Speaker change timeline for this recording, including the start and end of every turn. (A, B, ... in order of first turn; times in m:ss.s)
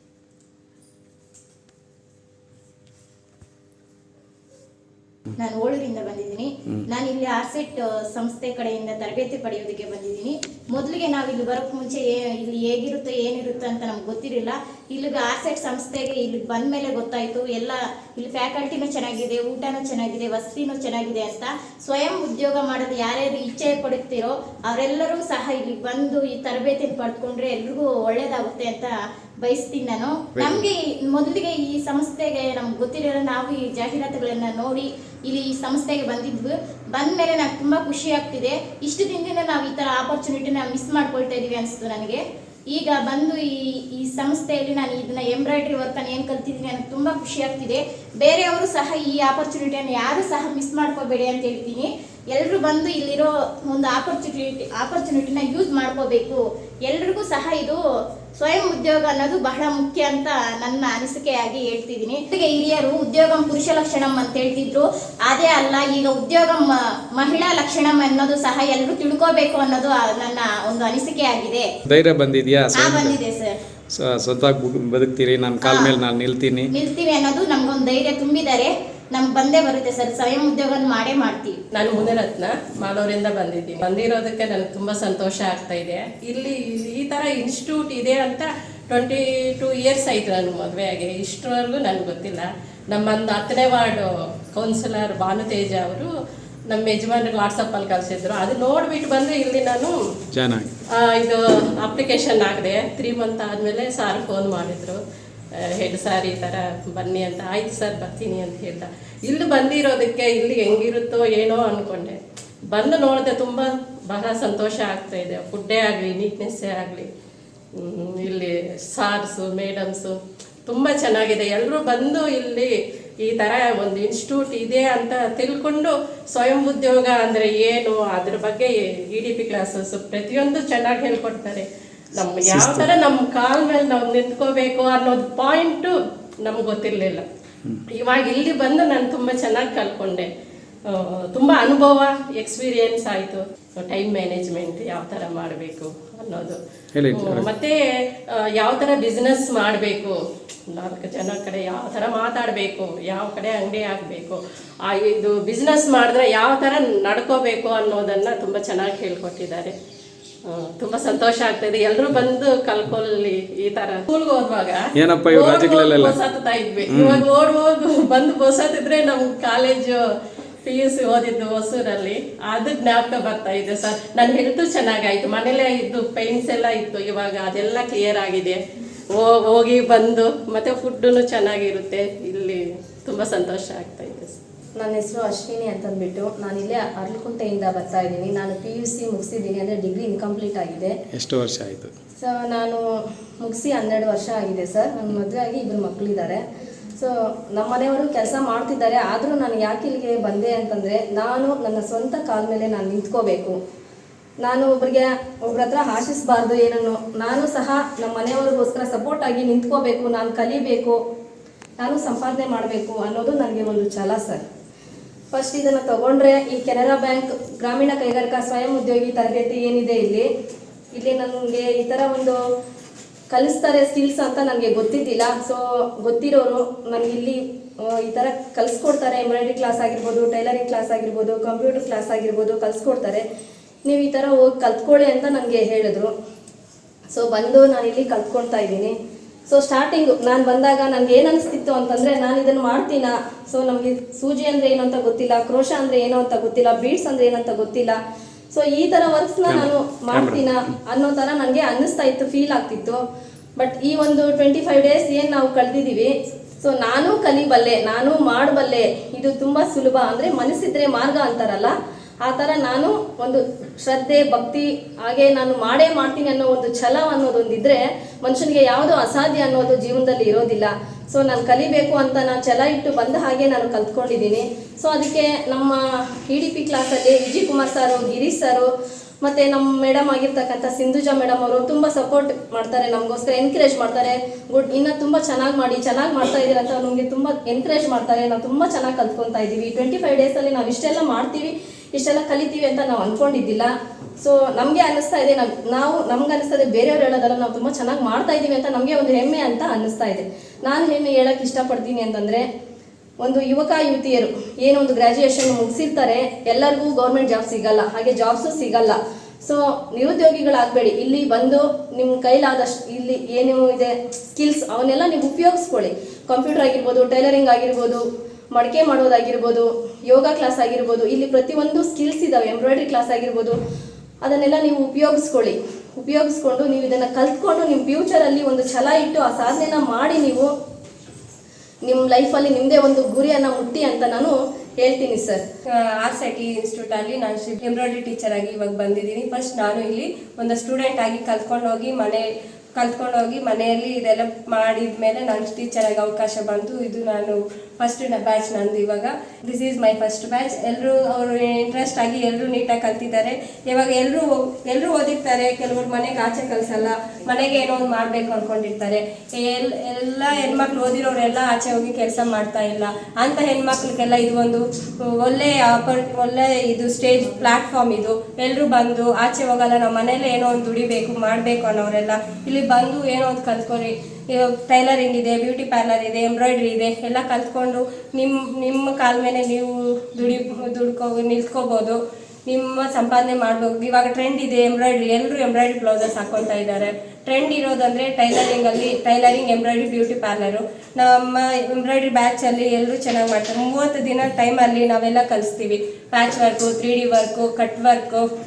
0:05.4-0:57.8 A
0:30.4-0:30.6 B
0:58.4-1:11.7 A
1:11.9-1:13.2 B
1:12.7-1:13.5 A
1:13.9-1:16.7 B
1:15.6-1:15.9 A
1:16.7-1:21.6 A
1:21.7-1:36.1 C
1:36.7-1:39.9 C
1:40.3-1:40.7 B
1:41.0-1:45.0 C
1:45.8-1:52.2 C
1:52.7-1:57.1 C
1:57.8-2:00.2 C
2:00.7-2:02.7 C
2:03.2-2:15.9 C
2:12.5-2:12.9 B
2:16.4-2:17.2 C
2:18.0-2:20.3 C
2:20.9-2:26.6 C
2:27.0-2:27.5 B
2:27.1-2:27.8 C
2:28.6-2:30.2 C
2:30.7-2:39.7 C
2:40.5-2:50.0 C
2:45.0-2:46.2 B
2:46.9-2:47.2 B
2:50.6-2:58.6 C
2:59.2-3:04.4 C
3:04.8-3:10.9 D
3:11.1-3:11.9 B
3:12.2-3:12.8 D
3:13.4-3:16.4 D
3:17.0-3:23.6 D
3:24.4-3:31.0 D
3:31.8-3:34.4 D
3:35.3-3:40.3 D
3:40.9-3:42.4 D
3:43.3-3:53.2 D
3:53.8-3:56.1 D
3:57.1-3:58.9 D
3:59.5-4:08.0 D
4:08.5-4:13.0 D
4:09.4-4:10.5 B
4:13.6-4:16.1 D
4:16.6-4:21.7 D
4:22.2-4:38.7 D
4:39.2-5:02.4 D
5:03.2-5:18.0 D
5:18.5-5:23.6 D
5:24.2-5:30.5 D
5:31.8-5:35.4 D
5:36.0-5:42.2 E
5:42.8-6:38.3 E